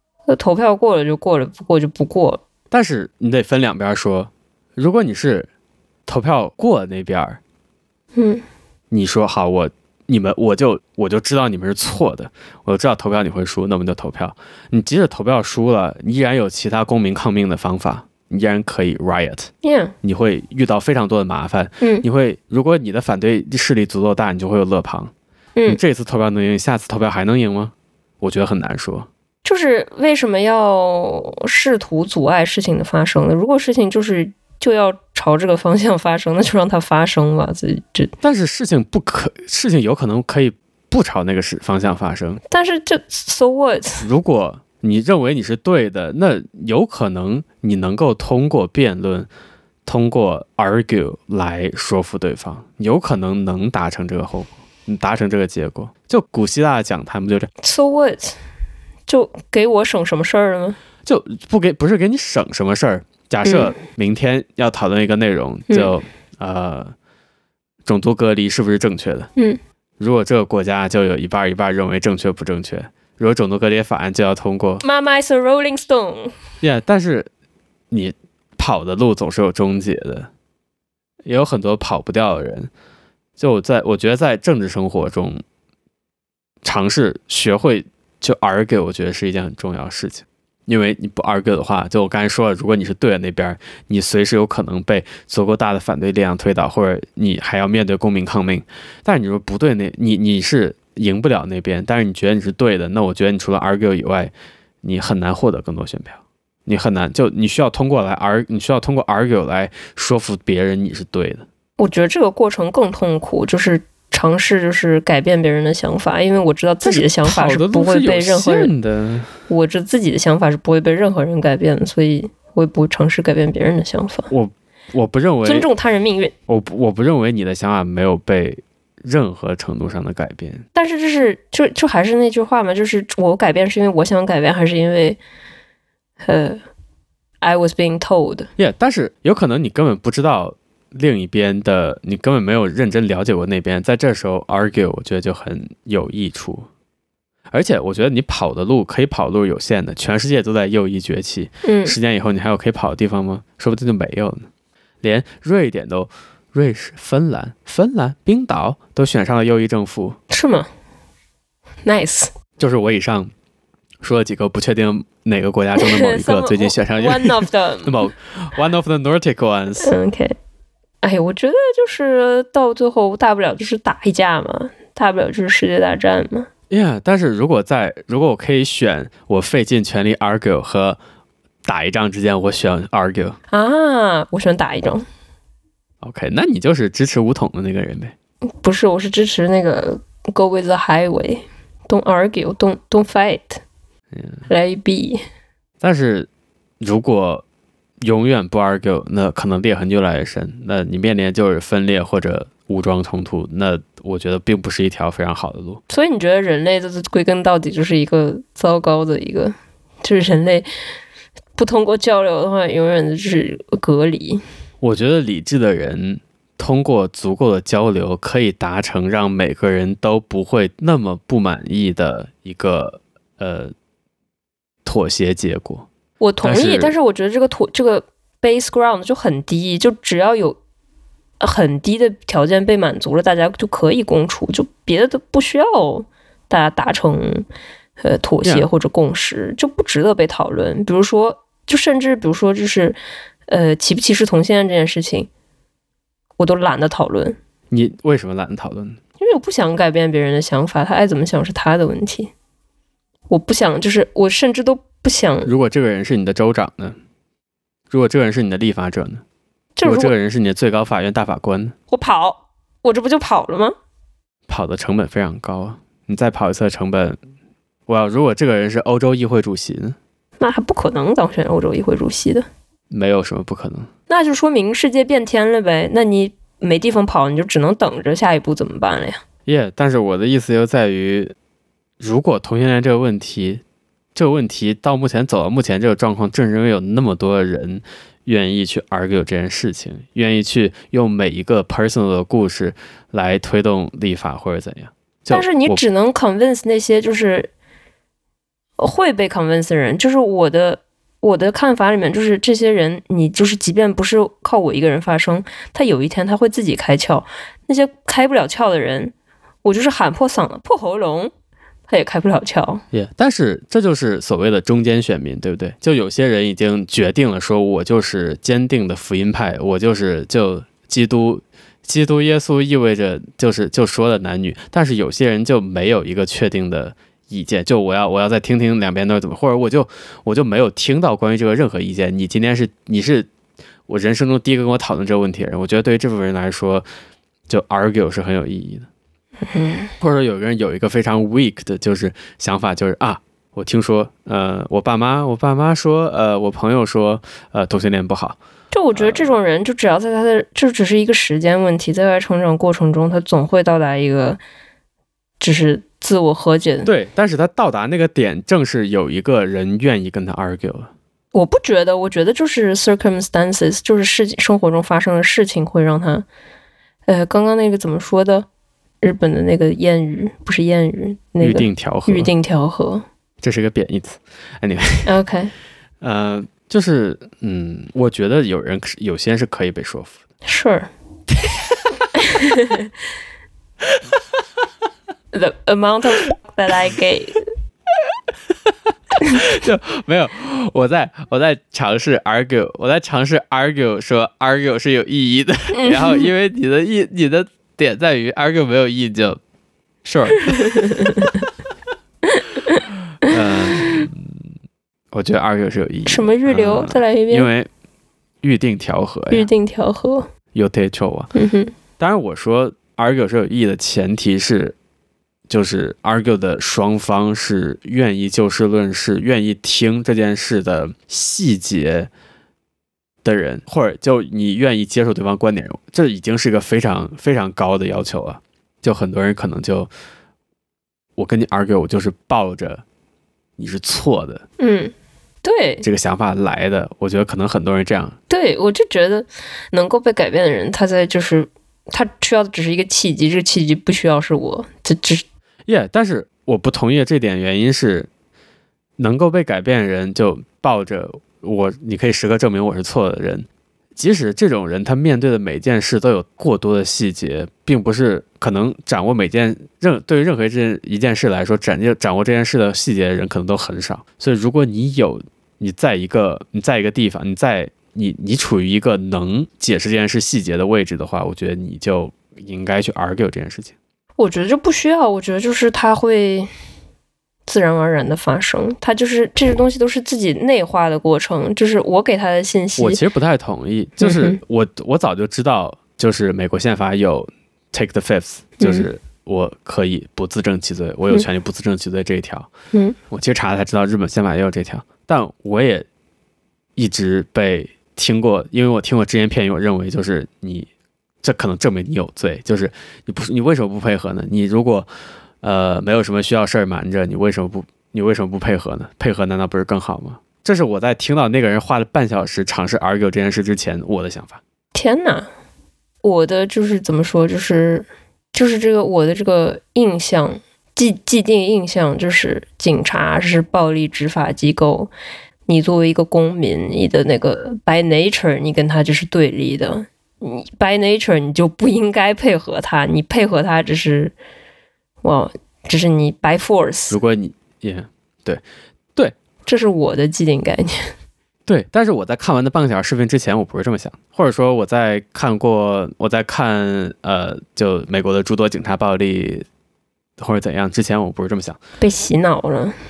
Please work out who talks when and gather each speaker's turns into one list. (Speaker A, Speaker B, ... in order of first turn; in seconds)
Speaker A: 0.3-2.4, 8.2-8.4, 19.6-19.9, 29.4-38.1, 42.5-44.1, 57.6-58.4, 59.1-60.8, 63.4-63.8, 74.8-76.4, 111.8-118.7, 119.5-124.3, 125.4-126.3, 130.8-135.2, 136.2-136.6, 137.4-138.5, 151.6-152.0, 160.3-160.7, 161.8-162.3, 165.8-168.1, 169.8-170.3, 171.0-176.5, 183.5-185.1, 188.6-193.6, 194.5-195.2, 205.9-210.7, 211.6-214.4, 226.2-230.6, 231.4-237.5, 238.0-243.0, 243.5-245.3, 246.4-247.4, 249.2-252.3, 253.3-255.5, 259.8-260.1, 261.9-263.8, 270.4-272.5, 274.1-279.2, 295.3-297.5, 298.8-311.3, 311.9-312.8, 339.5-339.9, 348.7-354.4, 355.4-356.9, 361.3-366.3, 367.1-368.5, 369.0-373.0, 375.1-375.5, 380.4-380.9, 382.2-382.9, 385.3-387.4, 395.7-396.3, 400.5-401.4, 402.3-404.1, 406.1-407.5, 409.3-410.3, 411.4-411.7, 434.6-434.9, 435.4-435.9, 438.3-445.2, 474.2-476.5, 477.5-483.0, 484.0-484.4, 488.6-488.9, 514.7-515.3, 516.0-524.9, 525.5-534.1, 535.0-537.0, 539.5-540.9, 551.8-552.8
Speaker B: 2.7-5.5, 6.1-7.4, 8.9-19.5, 20.0-25.1, 25.7-29.1, 38.2-42.4, 44.0-49.3, 49.9-57.5, 61.1-66.9, 67.9-69.3, 70.0-74.8, 76.6-77.3, 77.9-80.3, 81.2-82.7, 83.4-85.4, 86.6-111.5, 116.8-119.3, 124.3-125.7, 126.5-130.7, 138.6-146.7, 147.5-154.5, 155.0-160.2, 162.6-163.3, 164.0-169.9, 176.7-181.0, 181.6-183.4, 186.0-188.1, 194.1-194.4, 195.8-196.3, 196.8-197.4, 198.0-205.8, 214.8-223.7, 224.8-225.9, 226.4-226.9, 247.7-249.0, 255.5-257.0, 257.9-259.2, 259.8-261.8, 264.5-267.2, 267.9-270.0, 272.9-273.9, 279.5-281.3, 282.0-283.6, 284.1-295.8, 312.9-333.3, 333.9-336.9, 337.5-338.9, 340.0-348.4, 348.9-349.4, 356.9-360.9, 371.4-372.3, 373.4-375.1, 376.0-380.2, 388.1-399.4, 400.0-401.2, 403.2-404.4, 405.1-407.7, 408.4-409.5, 410.5-411.3, 412.0-414.8, 415.5-422.1, 423.2-429.9, 431.2-432.8, 433.6-434.4, 435.8-438.2, 445.7-448.1, 449.0-473.8, 482.8-492.5, 493.1-495.9, 496.8-500.7, 501.2-504.9, 505.4-514.4, 536.9-538.4, 541.5-549.5, 550.2-551.6